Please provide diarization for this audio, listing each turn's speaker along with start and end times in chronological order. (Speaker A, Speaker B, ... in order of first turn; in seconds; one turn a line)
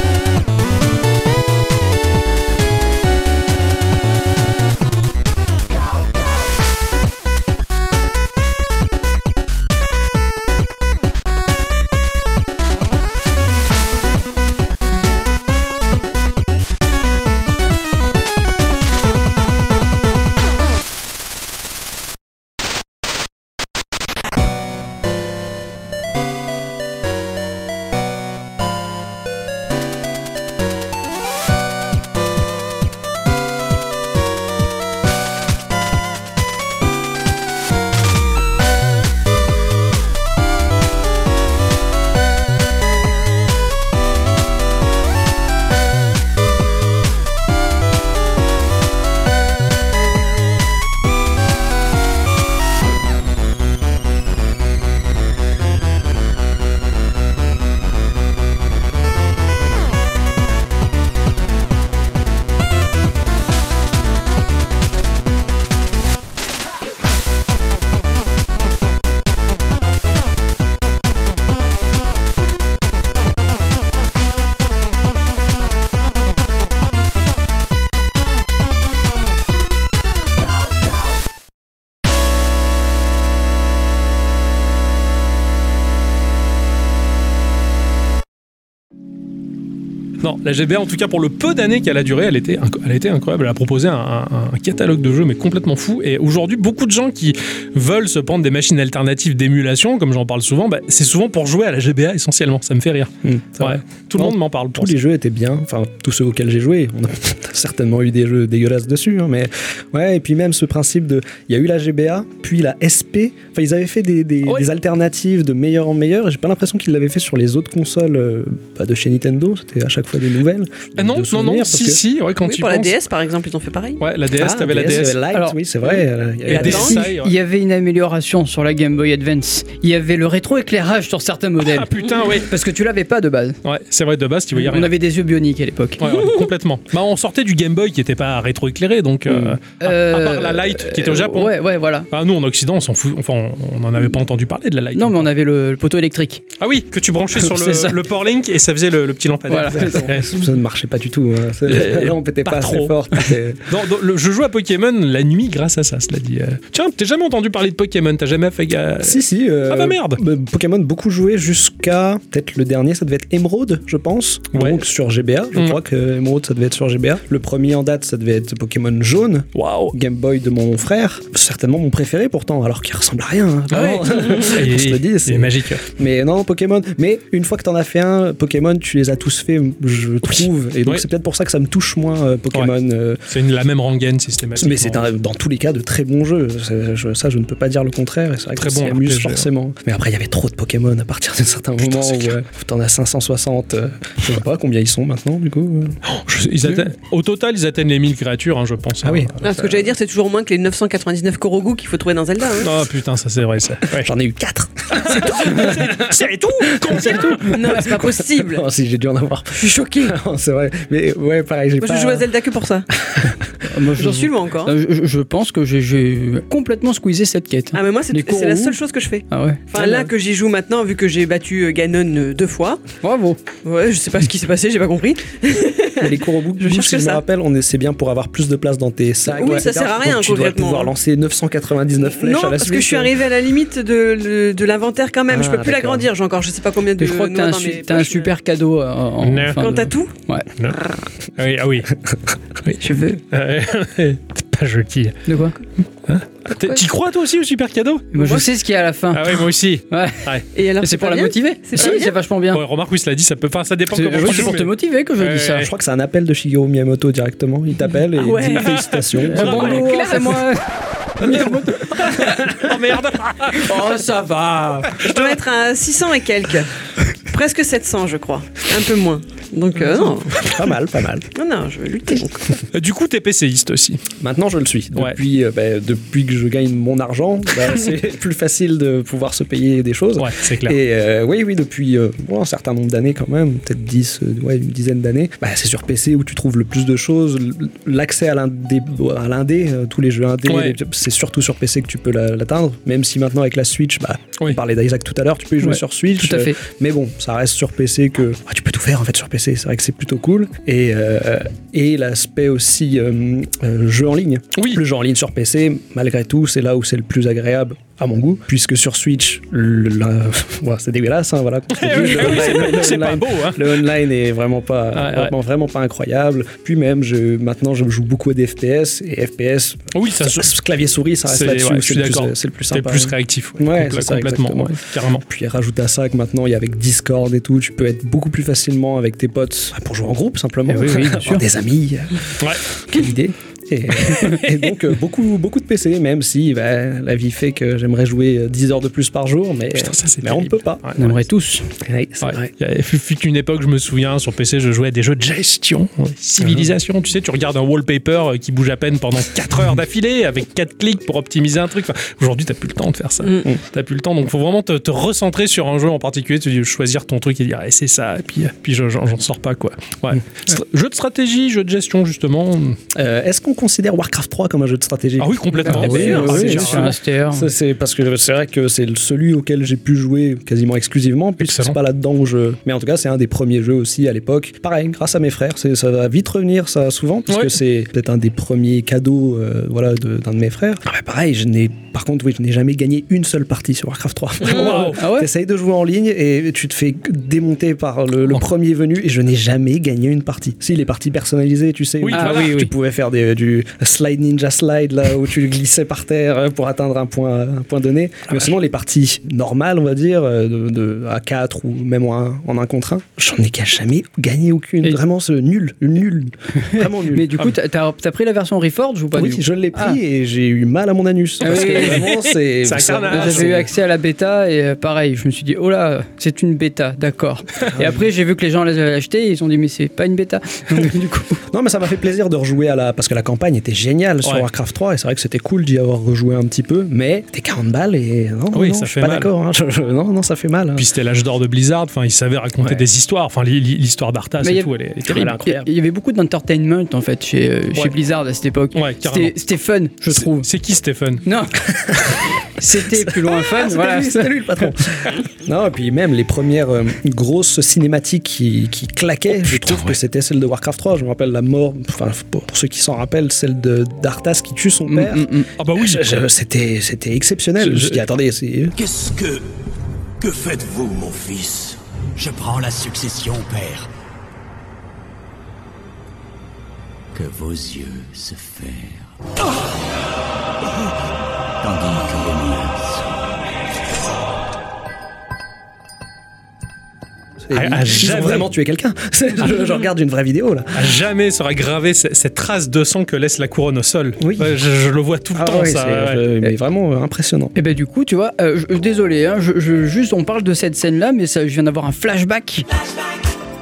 Speaker A: 90.2-105.0
Speaker B: 103.2-122.0
Speaker A: 121.0-123.0
Speaker C: 122.4-124.0
Speaker A: 124.0-125.2
Speaker B: 124.3-127.1
Speaker D: 125.3-125.6
Speaker A: 126.5-127.3
Speaker C: 126.5-127.0
Speaker D: 126.5-133.6
Speaker A: 131.6-132.5
Speaker A: 133.6-134.9
Speaker D: 134.5-136.0
Speaker A: 136.0-141.6
Speaker D: 139.8-142.1
Speaker A: 142.1-145.3
Speaker D: 144.9-146.4
Speaker A: 146.6-150.3
Speaker D: 147.4-147.9
Speaker D: 149.5-150.1
Speaker B: 149.7-153.6
Speaker A: 151.7-160.2
Speaker B: 159.0-183.2
Speaker A: 164.5-164.8
Speaker A: 169.5-169.9
Speaker A: 173.7-175.8
Speaker A: 180.3-181.0
Speaker A: 183.3-185.1
Speaker B: 184.6-196.0
Speaker A: 188.6-189.5
Speaker A: 191.8-192.3
Speaker A: 196.1-199.3
Speaker B: 199.0-199.9
Speaker C: 199.4-202.8
Speaker A: 202.6-204.1
Speaker B: 203.9-212.3
Speaker A: 204.9-207.7
Speaker C: 207.1-208.7
Speaker C: 209.6-210.2
Speaker C: 211.8-212.9
Speaker B: 213.0-213.5
Speaker D: 213.6-220.0
Speaker C: 213.9-214.7
Speaker C: 217.7-222.8
Speaker D: 223.0-223.4
Speaker C: 223.6-227.2
Speaker B: 226.0-233.1
Speaker C: 229.3-230.9
Speaker C: 232.0-238.3
Speaker B: 235.3-236.1
Speaker D: 237.0-240.5
Speaker A: 239.2-239.8
Speaker C: 239.6-240.1
Speaker A: 241.3-241.9
Speaker A: 242.6-245.2
Speaker D: 242.8-243.2
Speaker D: 245.2-245.6
Speaker A: 246.1-248.4
Speaker C: 246.6-246.8
Speaker D: 248.1-252.6
Speaker A: 249.1-250.4
Speaker C: 250.5-252.1
Speaker A: 252.5-255.7
Speaker D: 253.9-255.7
Speaker B: 255.6-259.9
Speaker C: 258.2-258.6
Speaker A: 258.5-260.4
Speaker D: 259.3-260.6
Speaker C: 259.6-260.3
Speaker D: 261.1-262.6
Speaker A: 261.9-264.0
Speaker D: 263.5-264.9
Speaker A: 264.8-265.4
Speaker C: 265.0-266.7
Speaker C: 267.2-270.5
Speaker B: 270.3-271.3
Speaker C: 271.3-272.6
Speaker A: 272.7-274.0
Speaker B: 274.2-340.9
Speaker A: 280.2-280.8
Speaker A: 290.5-290.8
Speaker D: 295.6-296.6
Speaker A: 304.6-304.8
Speaker A: 311.7-313.8
Speaker A: 314.9-315.3
Speaker A: 319.9-320.5
Speaker A: 321.2-325.2
Speaker D: 330.7-331.4
Speaker A: 334.1-334.6
Speaker A: 339.7-341.1
Speaker D: 341.0-341.7
Speaker B: 341.8-342.5
Speaker A: 342.2-362.8
Speaker B: 346.4-346.7
Speaker B: 362.9-407.4
Speaker A: 365.2-366.9
Speaker D: 365.6-367.5
Speaker C: 365.9-366.5
Speaker A: 371.4-371.8
Speaker A: 377.3-377.5
Speaker A: 384.4-385.0
Speaker D: 384.7-385.3
Speaker A: 392.0-392.5
Speaker D: 392.1-392.7
Speaker D: 406.6-410.0
Speaker B: 409.1-413.7
Speaker D: 411.4-412.1
Speaker A: 411.4-413.5
Speaker D: 413.1-421.4
Speaker B: 417.7-418.0
Speaker B: 421.5-430.9
Speaker A: 428.5-429.3
Speaker A: 430.8-435.4
Speaker D: 434.4-440.5
Speaker B: 435.1-435.7
Speaker A: 438.7-439.4
Speaker A: 440.1-441.2
Speaker D: 441.2-441.8
Speaker B: 441.9-442.2
Speaker D: 442.6-444.4
Speaker B: 443.0-458.7
Speaker A: 449.4-450.0
Speaker D: 454.9-455.5
Speaker A: 455.6-456.2
Speaker A: 457.6-458.0
Speaker E: 458.7-459.4
Speaker E: 460.2-463.9
Speaker E: 467.1-469.1
Speaker E: 471.6-473.2
Speaker B: 477.4-480.9
Speaker A: 477.5-478.5
Speaker A: 480.7-486.4
Speaker B: 484.2-484.5
Speaker B: 485.3-487.5
Speaker D: 487.5-492.6